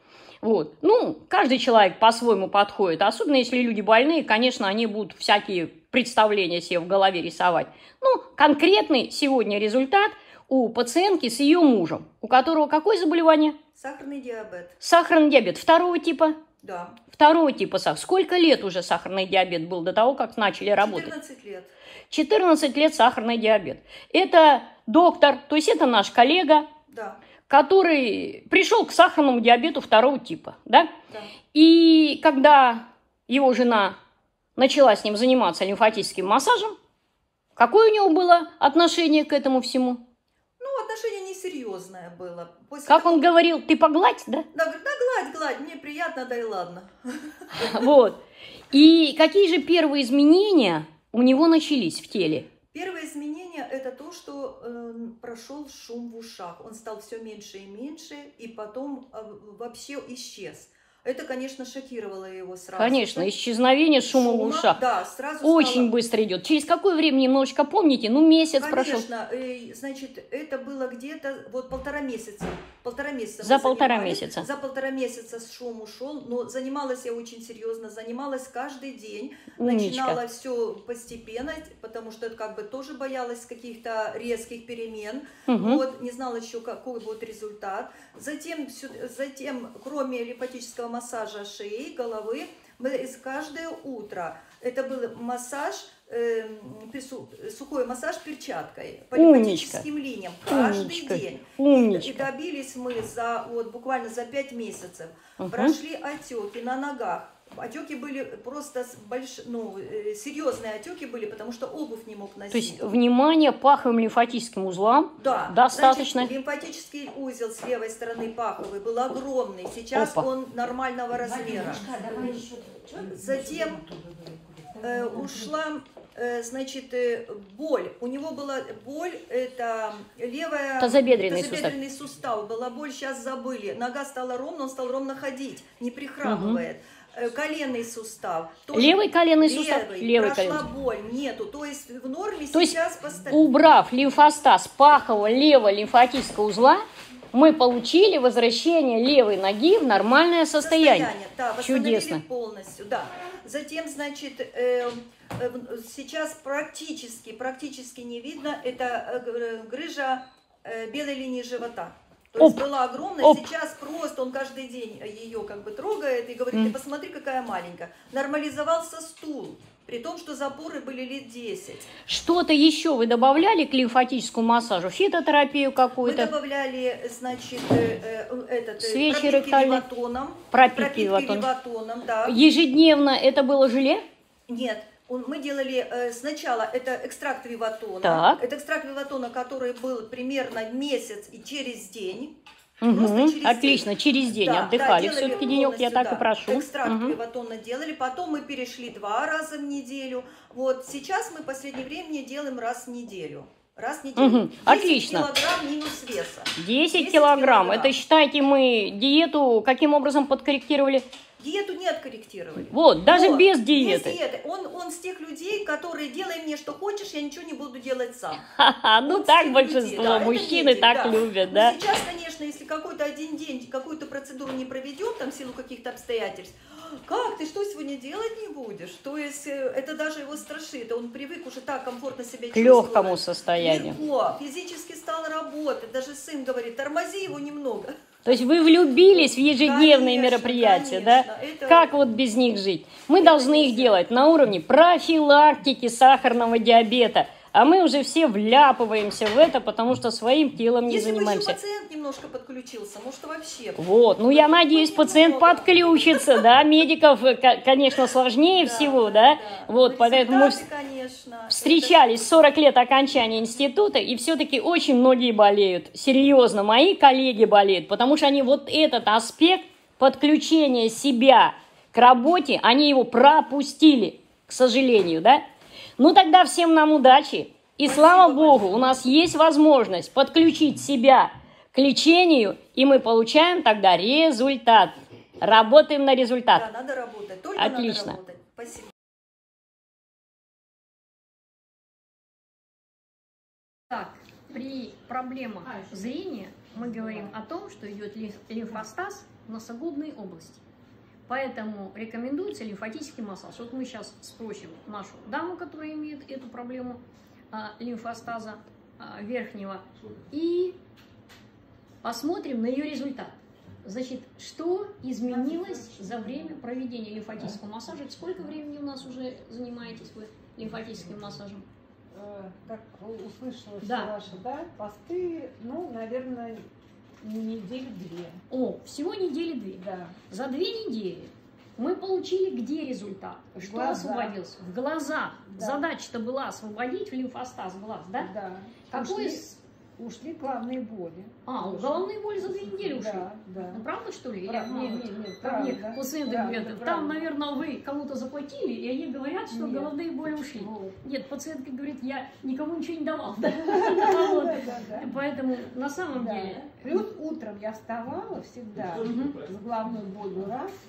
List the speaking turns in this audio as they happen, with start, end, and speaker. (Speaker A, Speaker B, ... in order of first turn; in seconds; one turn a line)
Speaker A: 0.4-13.6
Speaker B: 13.7-14.7
Speaker A: 14.8-16.4
Speaker B: 16.6-17.0
Speaker A: 17.1-21.1
Speaker B: 20.8-21.7
Speaker A: 22.1-26.7
Speaker B: 26.9-27.2
Speaker A: 27.5-30.9
Speaker A: 31.5-33.9
Speaker A: 34.6-36.7
Speaker A: 37.5-40.0
Speaker B: 40.6-43.3
Speaker A: 42.9-44.4
Speaker B: 44.5-48.0
Speaker A: 47.5-48.2
Speaker A: 48.7-52.5
Speaker B: 52.7-63.3
Speaker A: 62.8-64.8
Speaker B: 64.1-65.9
Speaker A: 65.4-69.0
Speaker B: 68.6-112.8
Speaker A: 73.4-74.4
Speaker A: 79.5-80.2
Speaker A: 85.5-85.8
Speaker A: 99.1-99.8
Speaker A: 100.5-102.3
Speaker A: 105.4-105.8
Speaker A: 112.5-116.3
Speaker B: 115.2-122.0
Speaker A: 119.9-120.3
Speaker C: 122.0-122.4
Speaker B: 123.1-123.8
Speaker B: 124.8-143.4
Speaker A: 130.8-131.8
Speaker A: 136.2-136.6
Speaker A: 138.7-140.6
Speaker A: 142.5-146.8
Speaker A: 147.3-152.2
Speaker B: 150.6-171.9
Speaker A: 162.4-162.7
Speaker A: 163.2-163.5
Speaker A: 172.1-176.3
Speaker B: 176.0-182.4
Speaker A: 178.8-179.8
Speaker A: 180.5-181.5
Speaker A: 182.2-184.0
Speaker B: 184.5-193.9
Speaker A: 188.0-188.4
Speaker A: 192.8-197.2
Speaker B: 194.4-207.9
Speaker A: 204.2-205.3
Speaker A: 206.6-211.1
Speaker B: 211.4-218.4
Speaker A: 212.6-214.2
Speaker A: 218.5-221.8
Speaker B: 219.0-237.9
Speaker A: 232.5-233.9
Speaker A: 238.2-251.6
Speaker B: 239.5-241.9
Speaker B: 243.1-244.0
Speaker B: 250.8-256.5
Speaker A: 253.8-260.6
Speaker B: 258.5-262.4
Speaker A: 261.5-275.4
Speaker A: 276.0-286.7
Speaker B: 277.8-279.0
Speaker B: 286.5-288.9
Speaker A: 287.6-288.2
Speaker A: 293.9-300.6
Speaker A: 301.3-307.0
Speaker A: 307.5-310.8
Speaker A: 312.0-321.6
Speaker C: 322.1-323.7
Speaker A: 323.8-324.2
Speaker C: 324.4-326.5
Speaker C: 327.2-328.2
Speaker A: 328.5-338.3
Speaker A: 338.9-339.6
Speaker C: 340.0-341.2
Speaker A: 341.4-357.0
Speaker C: 357.1-358.6
Speaker A: 359.0-359.4
Speaker C: 359.6-360.7